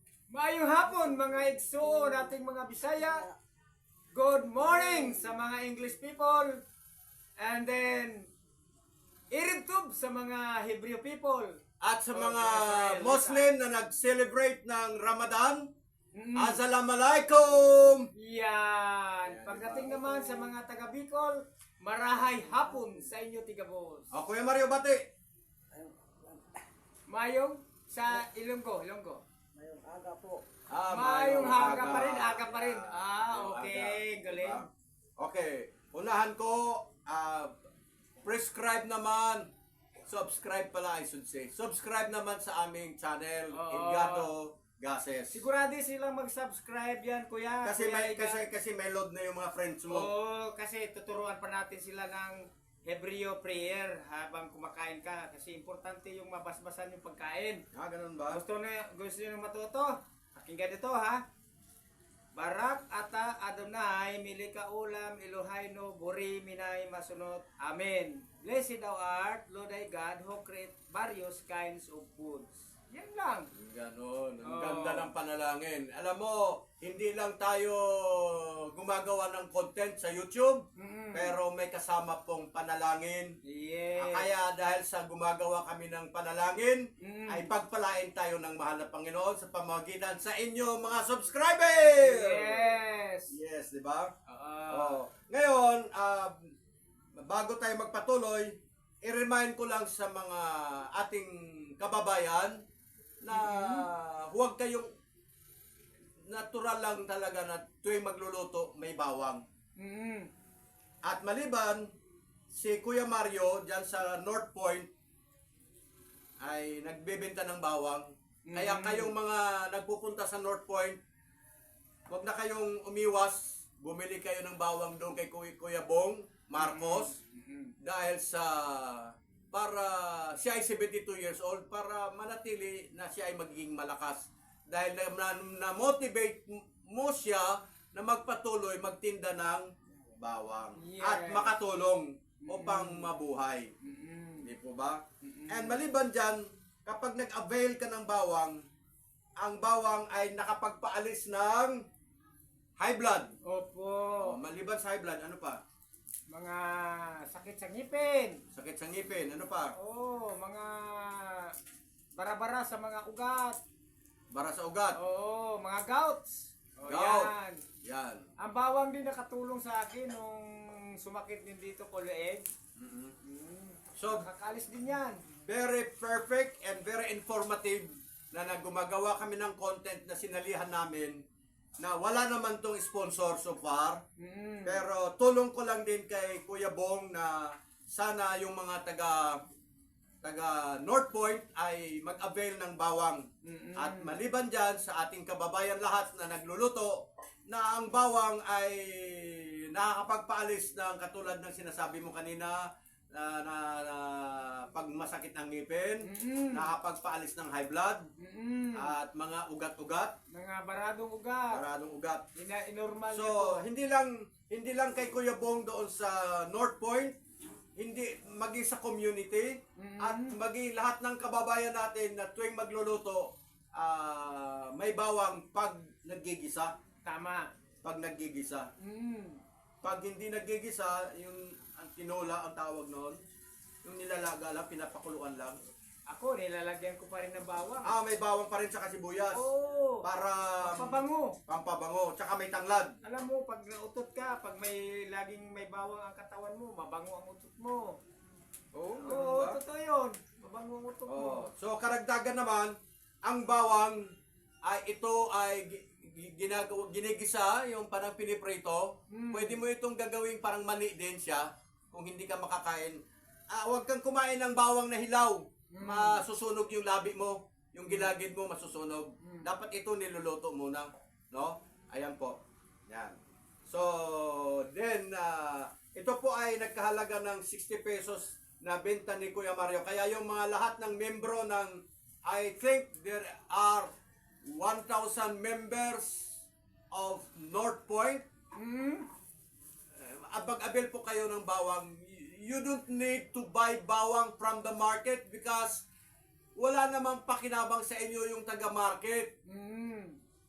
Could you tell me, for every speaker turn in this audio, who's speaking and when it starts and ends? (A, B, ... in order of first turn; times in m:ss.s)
0:00.3-0:03.2 A
0:01.1-0:02.2 B
0:03.0-0:03.3 B
0:04.1-0:06.6 A
0:04.7-0:05.3 B
0:07.4-0:08.3 A
0:09.3-0:11.6 A
0:11.8-0:15.7 C
0:12.1-0:13.5 A
0:16.1-0:16.6 A
0:16.4-0:18.1 C
0:18.2-0:24.1 A
0:19.2-0:20.2 C
0:22.5-0:23.0 B
0:24.1-0:25.0 C
0:25.7-0:26.5 B
0:27.1-0:29.2 A
0:29.6-0:30.5 B
0:30.7-0:34.7 C
0:30.9-0:34.6 A
0:31.4-0:32.1 B
0:35.2-0:37.5 C
0:38.2-0:39.5 C
0:40.1-0:45.4 C
0:43.5-0:44.3 A
0:45.3-0:48.4 A
0:47.6-0:50.1 C
0:49.9-0:57.6 A
0:57.7-0:58.4 C
0:58.3-1:01.2 A
1:02.4-1:13.5 A
1:13.5-1:23.4 C
1:14.4-1:15.1 A
1:20.8-1:21.4 A
1:23.4-1:24.3 A
1:24.0-1:32.8 C
1:27.0-1:27.5 A
1:32.0-1:33.3 A
1:33.3-1:34.1 C
1:34.3-1:35.0 A
1:34.7-1:36.5 C
1:37.2-1:42.6 C
1:43.2-1:44.9 C
1:43.3-1:43.9 A
1:46.3-1:49.4 C
1:49.8-1:50.3 A
1:51.0-1:51.9 C
1:52.5-1:54.9 C
1:56.4-2:01.0 C
1:58.5-1:59.1 A
2:02.1-2:07.2 C
2:06.6-2:07.7 A
2:07.8-2:23.7 C
2:20.8-2:21.6 A
2:22.4-2:23.1 A
2:23.8-2:24.5 A
2:24.4-2:28.6 C
2:25.2-2:25.8 A
2:29.4-2:31.8 C
2:32.8-2:33.3 C
2:33.4-2:34.4 A
2:34.2-2:35.6 C
2:36.3-2:38.4 A
2:38.5-2:39.8 C
2:39.8-2:41.6 A
2:42.2-2:43.6 A
2:44.3-2:45.0 C
2:45.0-2:47.6 A
2:46.9-2:47.3 C
2:47.8-2:48.3 C
2:48.4-2:52.5 A
2:52.8-2:53.2 C
2:53.2-2:55.2 A
2:54.0-2:54.3 C
2:55.4-3:01.2 C
3:01.8-3:04.0 C
3:04.2-3:04.9 A
3:04.6-3:09.4 C
3:10.2-3:13.2 C
3:13.4-3:14.2 A
3:13.8-3:22.6 C
3:23.1-3:28.1 C
3:26.0-3:26.7 A
3:28.2-3:28.9 A
3:28.8-3:30.1 C
3:30.3-3:31.6 A
3:31.5-3:32.2 C
3:32.4-3:33.6 A
3:33.1-3:37.2 C
3:37.8-3:46.7 C
3:39.8-3:40.4 A
3:47.0-3:47.5 A
3:47.8-3:48.7 C
3:48.8-3:49.4 A
3:49.8-3:53.2 C
3:53.8-3:55.6 C
3:56.1-3:58.0 A
3:57.8-3:59.4 C
3:59.3-4:00.0 A
4:00.0-4:03.0 C
4:00.6-4:01.4 A
4:03.0-4:08.0 A
4:08.7-4:09.6 C
4:09.0-4:11.5 A
4:11.1-4:14.1 C
4:14.6-4:23.0 C
4:19.1-4:19.6 A
4:23.5-4:32.4 C
4:25.7-4:26.2 A
4:29.2-4:29.5 A
4:32.9-4:33.2 C
4:33.7-4:43.9 C
4:44.4-4:48.2 C
4:48.5-4:49.1 A
4:50.0-4:55.8 C
4:56.6-4:59.3 C
4:59.5-5:00.2 A